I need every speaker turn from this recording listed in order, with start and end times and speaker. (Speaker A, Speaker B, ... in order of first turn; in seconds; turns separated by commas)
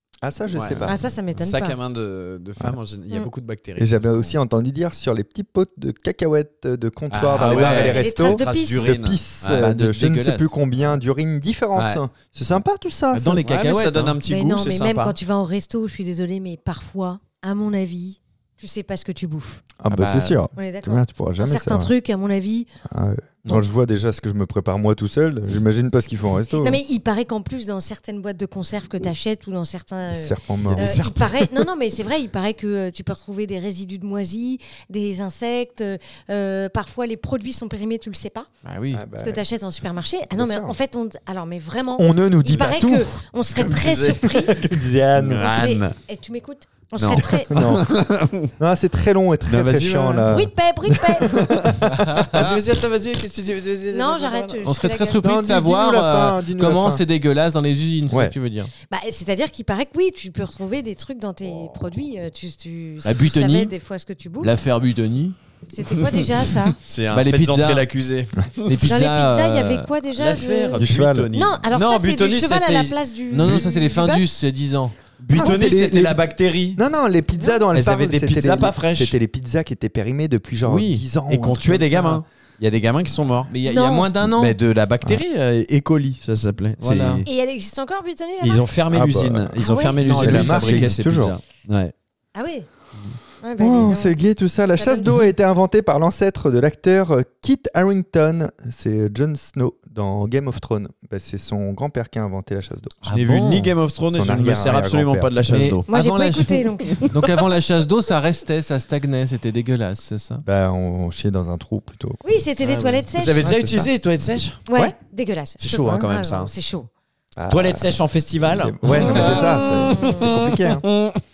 Speaker A: 0.2-1.0, Speaker B: 0.5-4.3, Speaker C: 0.8-1.8, Speaker A: 3.8-13.5, Speaker B: 7.1-9.5, Speaker D: 7.4-7.7, Speaker C: 7.6-8.8, Speaker D: 9.5-10.6, Speaker D: 13.1-14.2, Speaker B: 13.4-15.2, Speaker C: 14.2-19.6, Speaker A: 19.8-21.9, Speaker D: 19.9-20.4, Speaker C: 20.6-22.7, Speaker A: 22.9-26.8, Speaker C: 26.6-38.5, Speaker A: 30.1-31.3, Speaker B: 30.7-31.1, Speaker D: 38.6-39.0, Speaker A: 38.9-39.4, Speaker C: 39.2-44.7, Speaker A: 40.4-40.8, Speaker A: 42.0-43.2, Speaker B: 43.5-44.2, Speaker A: 44.4-45.5, Speaker B: 45.2-46.0, Speaker C: 45.5-47.5, Speaker B: 47.0-48.5, Speaker A: 47.2-48.0, Speaker A: 48.6-50.5, Speaker B: 49.5-50.3, Speaker C: 50.3-51.4, Speaker A: 51.1-51.7, Speaker B: 51.3-54.6, Speaker D: 51.9-52.6, Speaker C: 53.9-55.2, Speaker D: 54.6-58.7, Speaker A: 55.2-57.0, Speaker A: 58.1-58.4, Speaker C: 58.9-64.6, Speaker D: 63.0-63.7, Speaker D: 64.4-65.4, Speaker C: 65.7-66.8, Speaker B: 66.9-68.9, Speaker D: 67.1-67.9, Speaker D: 68.7-69.9, Speaker C: 68.8-70.8, Speaker B: 70.2-73.0, Speaker A: 70.8-71.3, Speaker C: 71.3-74.3, Speaker D: 73.3-75.1, Speaker B: 75.2-76.8, Speaker A: 75.3-76.2, Speaker A: 76.8-82.2, Speaker B: 77.7-79.2, Speaker D: 80.7-81.0, Speaker B: 81.3-83.5, Speaker D: 83.5-84.6, Speaker C: 83.6-84.1, Speaker B: 84.2-87.3, Speaker D: 86.8-87.2, Speaker C: 87.3-88.7, Speaker B: 88.4-91.9, Speaker A: 88.9-91.4, Speaker C: 89.6-90.2, Speaker C: 92.3-92.7, Speaker C: 93.4-94.2, Speaker A: 93.6-103.0, Speaker C: 94.8-95.2, Speaker D: 103.0-103.7, Speaker B: 103.1-105.9, Speaker A: 104.1-105.3, Speaker D: 105.5-110.5, Speaker C: 105.9-107.1, Speaker A: 110.5-112.2, Speaker C: 112.2-113.5, Speaker B: 113.1-114.6, Speaker A: 113.4-113.9, Speaker C: 114.7-116.9, Speaker B: 115.6-116.5, Speaker A: 117.4-120.9, Speaker B: 117.5-121.1, Speaker C: 119.0-120.3